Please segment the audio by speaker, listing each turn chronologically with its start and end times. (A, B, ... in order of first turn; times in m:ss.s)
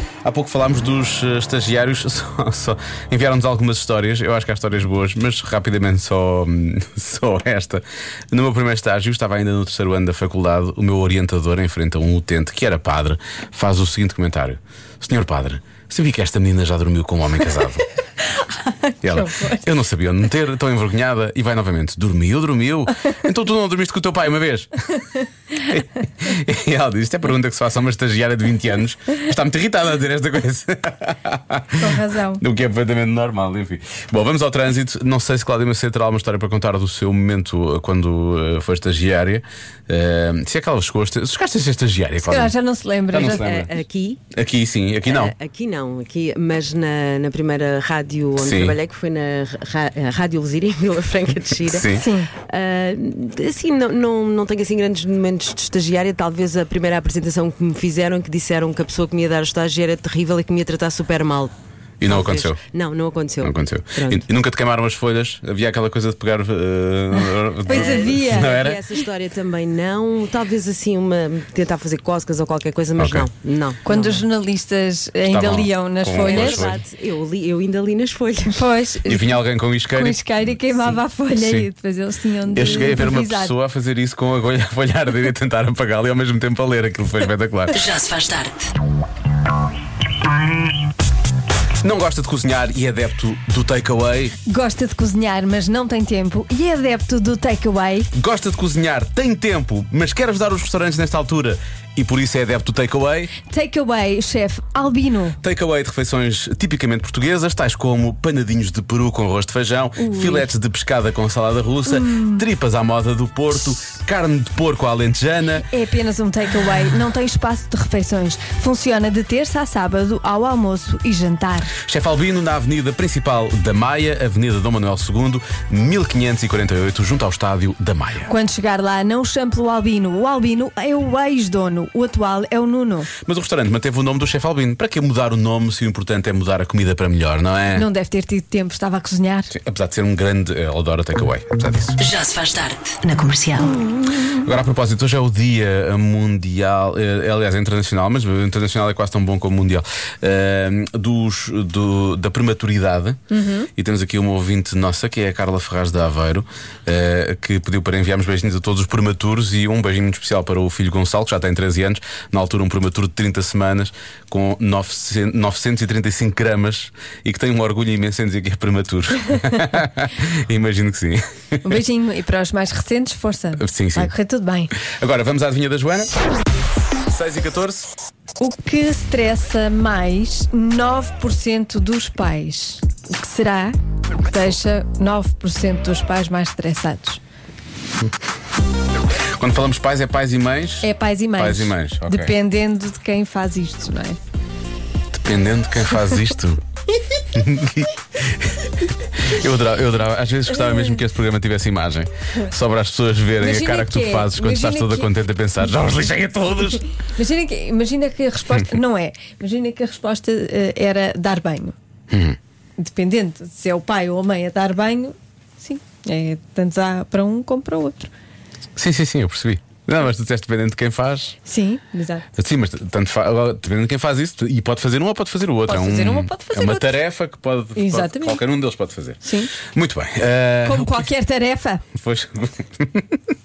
0:00.2-0:17.8 A
0:18.2-0:19.7 B
0:19.0-0:24.7 A
0:25.6-0:42.5 A
0:31.8-0:32.4 B
0:42.2-0:43.5 B
0:43.1-0:43.7 A
0:43.1-0:44.2 C
0:44.3-0:45.4 A
0:45.0-0:51.8 C
0:48.4-0:48.8 A
0:51.6-0:52.1 A
0:51.9-0:52.3 B
0:52.5-1:04.2 C
1:02.0-1:02.6 A
1:03.4-1:08.8 A
1:07.7-1:09.0 B
1:07.7-1:14.3 C
1:13.0-1:13.3 A
1:13.8-1:16.8 B
1:15.3-1:16.8 A
1:16.2-1:18.6 C
1:18.5-1:19.4 B
1:19.1-1:21.7 A
1:19.9-1:23.5 B
1:22.5-1:27.8 A
1:27.7-1:28.7 D
1:31.8-1:34.4 A
1:34.5-1:38.1 B
1:38.1-1:43.3 A
1:43.5-1:45.4 B
1:45.4-1:55.7 A
1:50.0-1:50.5 B
1:51.9-1:52.4 B
1:55.7-2:01.7 B
2:01.8-2:08.3 A
2:08.3-2:13.1 B
2:13.2-2:17.9 A
2:17.7-2:19.5 B
2:19.5-2:22.0 A
2:22.0-2:23.7 D
2:24.2-2:33.2 A
2:33.3-2:33.7 B
2:33.8-2:51.8 A
2:51.6-2:54.7 B
2:53.6-2:54.1 A
2:54.8-2:56.1 A
2:57.1-2:57.9 A
2:58.4-3:07.2 B
3:09.4-3:12.4 A
3:10.8-3:14.2 B
3:15.1-3:16.6 A
3:17.3-3:26.8 A
3:23.4-3:25.1 B
3:27.0-3:31.8 B
3:32.1-3:32.4 A
3:32.8-3:38.1 B
3:38.8-3:41.4 A
3:41.4-3:42.3 B
3:42.4-3:51.1 A
3:45.7-3:47.0 B
3:47.8-3:48.4 B
3:49.2-3:49.5 B
3:50.6-3:51.8 B
3:52.0-3:53.2 A